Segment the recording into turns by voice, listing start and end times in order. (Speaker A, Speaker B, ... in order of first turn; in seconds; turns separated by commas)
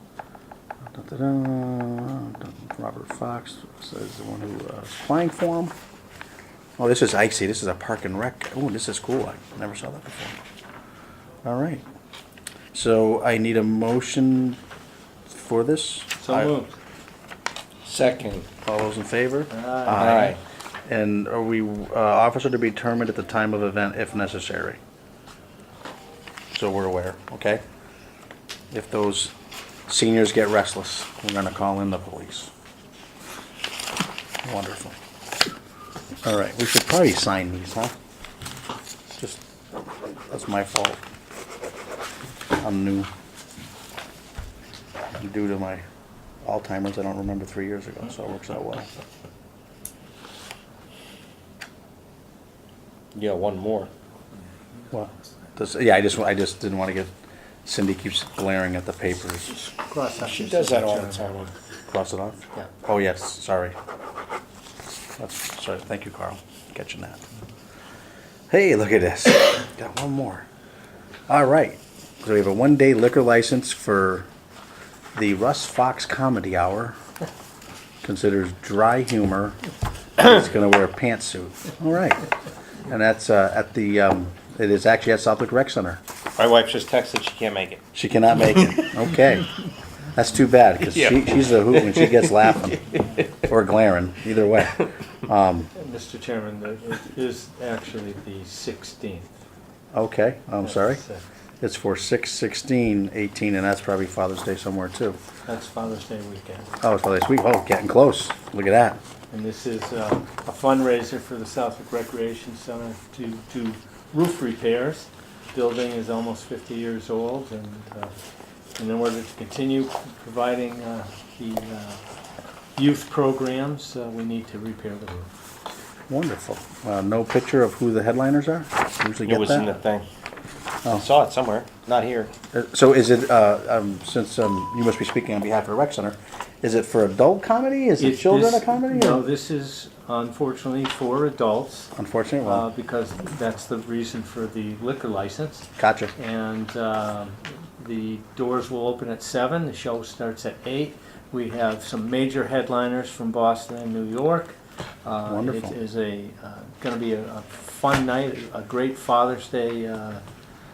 Speaker A: 0.9-5.7, Speaker A: 6.8-10.4, Speaker A: 11.4-11.8, Speaker A: 12.7-14.6, Speaker A: 15.2-16.5, Speaker B: 16.2-16.8, Speaker C: 17.9-18.5, Speaker A: 18.7-24.8, Speaker B: 19.5-20.3, Speaker C: 20.0-20.4, Speaker A: 26.5-27.6, Speaker A: 28.7-29.3, Speaker A: 29.9-32.5, Speaker A: 34.4-35.0, Speaker A: 36.2-37.9, Speaker A: 39.1-39.4, Speaker A: 40.3-41.0, Speaker A: 42.6-43.1, Speaker A: 45.2-45.8, Speaker A: 46.4-48.9, Speaker C: 53.1-53.9, Speaker A: 54.9-57.1, Speaker A: 57.6-59.5, Speaker B: 59.5-61.5, Speaker C: 60.2-61.5, Speaker A: 61.9-63.8, Speaker A: 65.2-67.2, Speaker A: 68.5-70.5, Speaker A: 71.3-74.3, Speaker A: 75.2-77.0, Speaker A: 78.0-79.6, Speaker A: 80.2-82.2, Speaker A: 82.9-86.0, Speaker C: 86.4-87.8, Speaker A: 87.9-89.5, Speaker A: 90.1-92.8, Speaker C: 90.9-92.2, Speaker A: 93.4-95.7, Speaker B: 95.8-99.3, Speaker A: 99.9-101.0, Speaker B: 100.6-101.2, Speaker A: 101.6-105.2, Speaker B: 105.5-106.7, Speaker A: 106.8-109.0, Speaker B: 109.3-118.1, Speaker B: 118.8-122.0, Speaker B: 122.8-125.3, Speaker A: 126.1-129.7, Speaker C: 129.2-130.1, Speaker C: 130.9-132.3, Speaker A: 132.5-139.2, Speaker B: 138.0-141.9, Speaker A: 141.9-142.7, Speaker B: 142.4-160.2, Speaker A: 145.8-146.1, Speaker A: 155.3-155.8